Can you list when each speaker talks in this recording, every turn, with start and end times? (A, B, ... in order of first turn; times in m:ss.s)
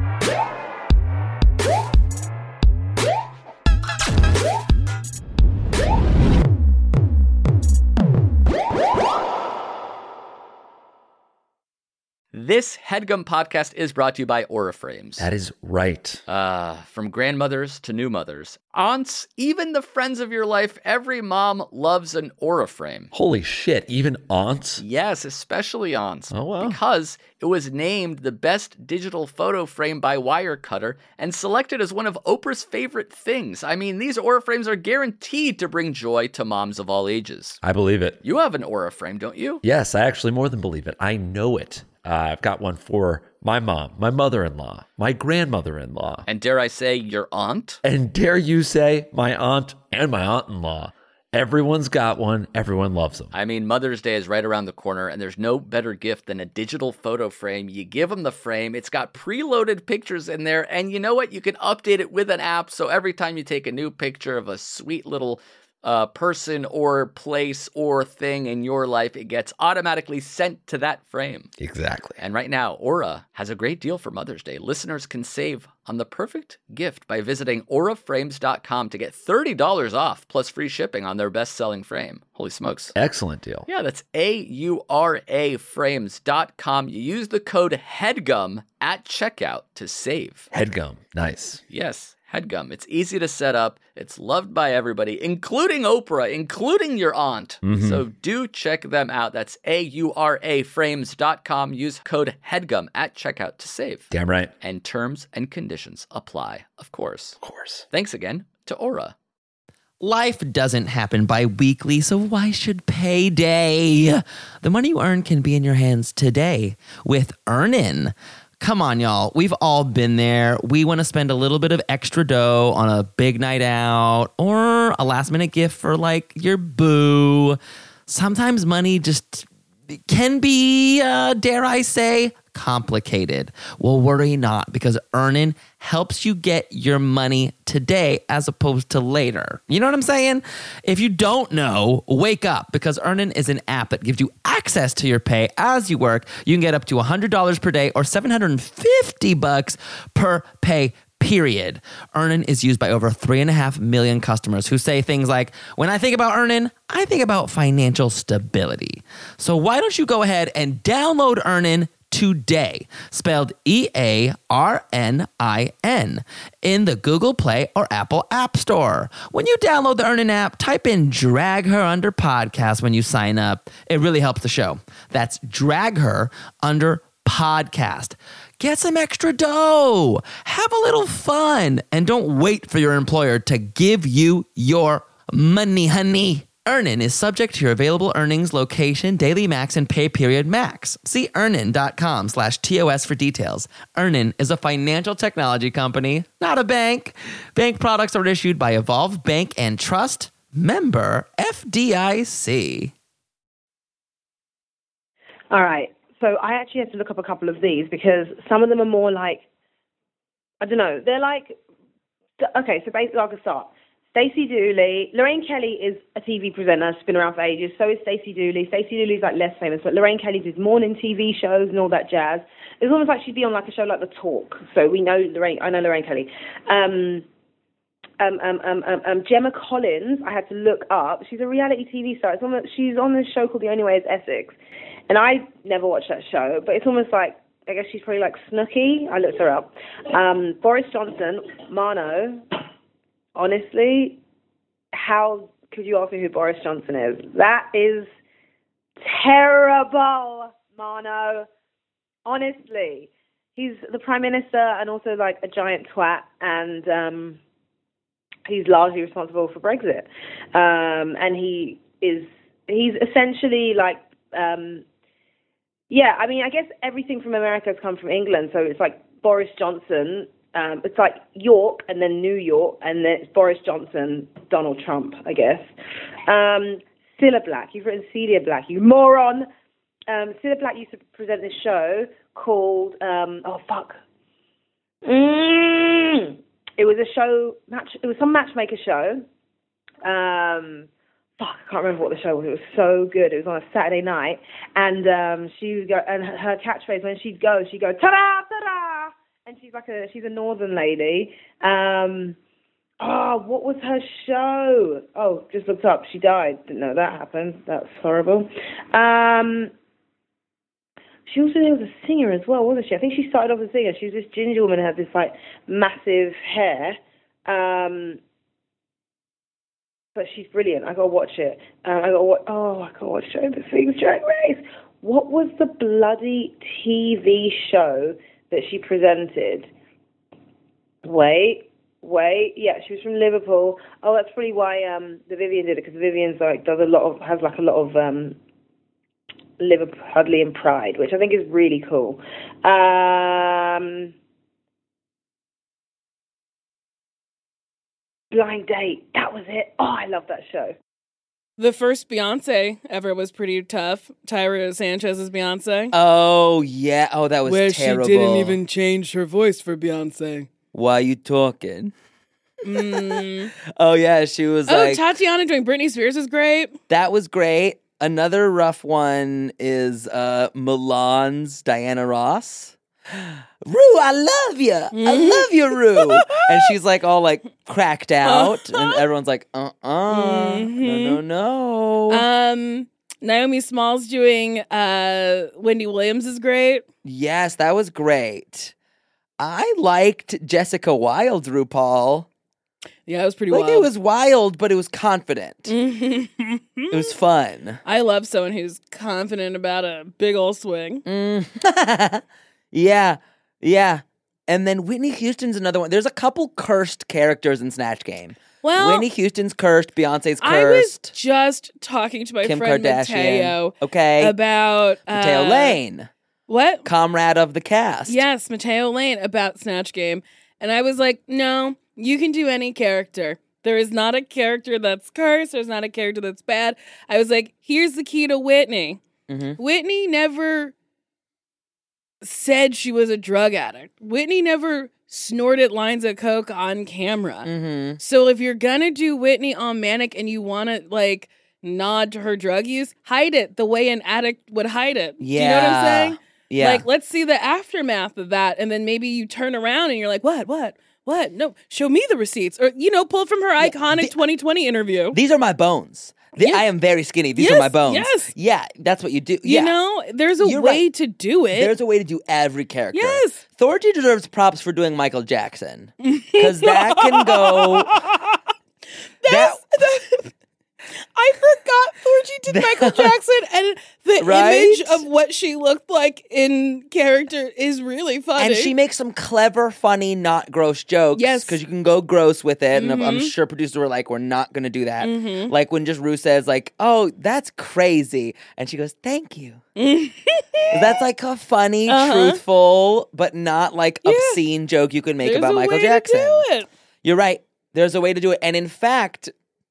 0:12.3-0:15.3 A
0:15.2-0:16.2 B
0:16.3-0:23.1 A
0:23.1-0:24.8 B
0:24.8-0:37.6 A
0:26.3-0:26.8 B
0:37.6-0:38.2 B
0:38.2-0:39.6 A
0:39.6-0:46.3 B
0:46.3-0:47.8 A
0:47.8-0:53.4 B
0:53.3-1:11.5 A
1:11.6-1:12.2 B
1:12.2-1:22.9 A
1:23.0-1:23.7 B
1:23.7-1:30.5 A
1:30.5-1:31.6 B
1:31.7-1:44.1 A
1:37.6-1:38.0 B
1:44.1-1:44.5 B
1:44.6-1:47.4 A
1:47.4-1:47.8 B
1:47.9-1:49.1 A
1:50.0-3:22.9 C
3:25.5-3:29.4 D
3:30.6-3:31.6 D
3:32.4-3:47.2 D
3:48.2-3:54.6 D
3:55.1-4:02.4 D
4:03.4-4:04.2 D
4:04.9-4:08.1 D
4:09.0-4:11.5 D
4:12.3-4:17.4 D
4:18.5-4:24.8 D
4:25.9-4:35.7 D
4:36.3-4:39.5 D
4:40.1-4:44.0 D
4:45.1-4:49.2 D
4:50.0-4:50.9 D
4:51.4-5:02.4 D
5:03.0-5:09.7 D
5:11.3-5:18.2 D
5:20.2-5:29.7 D
5:31.0-5:38.4 D
5:39.6-5:44.1 D
5:48.3-5:50.8 D
5:51.6-5:56.0 E
5:55.9-5:58.6 C
5:57.4-6:00.5 E
6:00.7-6:01.9 C
6:02.6-6:03.5 E
6:02.7-6:05.1 C
6:04.7-6:06.8 E
6:06.9-6:22.3 C
6:14.9-6:16.7 E
6:18.2-6:19.0 E
6:20.1-6:21.2 E
6:22.1-6:26.8 E
6:27.0-6:28.7 C
6:29.4-6:32.3 C
6:33.1-6:33.9 E
6:33.5-6:35.7 C
6:35.7-6:37.1 E
6:36.9-6:37.8 C
6:37.8-6:41.0 E
6:41.1-6:51.1 C
6:48.6-6:49.1 E
6:50.4-6:55.8 E
6:52.4-6:54.4 C
6:55.1-6:56.1 C
6:56.5-6:56.8 E
6:56.8-6:58.2 C
6:58.1-7:09.0 E
7:09.3-7:09.6 C
7:09.6-7:10.7 E
7:12.2-7:35.2 E
7:17.4-7:18.0 C
7:25.2-7:26.8 C
7:33.6-7:34.2 C
7:35.1-7:39.8 C
7:36.4-7:36.7 E
7:37.4-7:38.3 E
7:39.4-7:41.7 E
7:40.4-7:40.8 C
7:41.5-7:48.0 C
7:42.9-7:43.4 E
7:46.0-7:48.4 E
7:49.2-7:50.3 E
7:49.3-7:49.6 C
7:51.2-7:58.7 E
7:52.5-7:53.2 C
7:54.2-7:55.0 C
7:58.4-8:09.6 C
8:01.2-8:01.6 E
8:02.7-8:03.3 E
8:05.0-8:05.5 E
8:09.8-8:11.0 E
8:10.7-8:16.4 C
8:11.9-8:12.4 E
8:14.0-8:14.4 E
8:15.2-8:16.7 E
8:17.0-8:19.3 C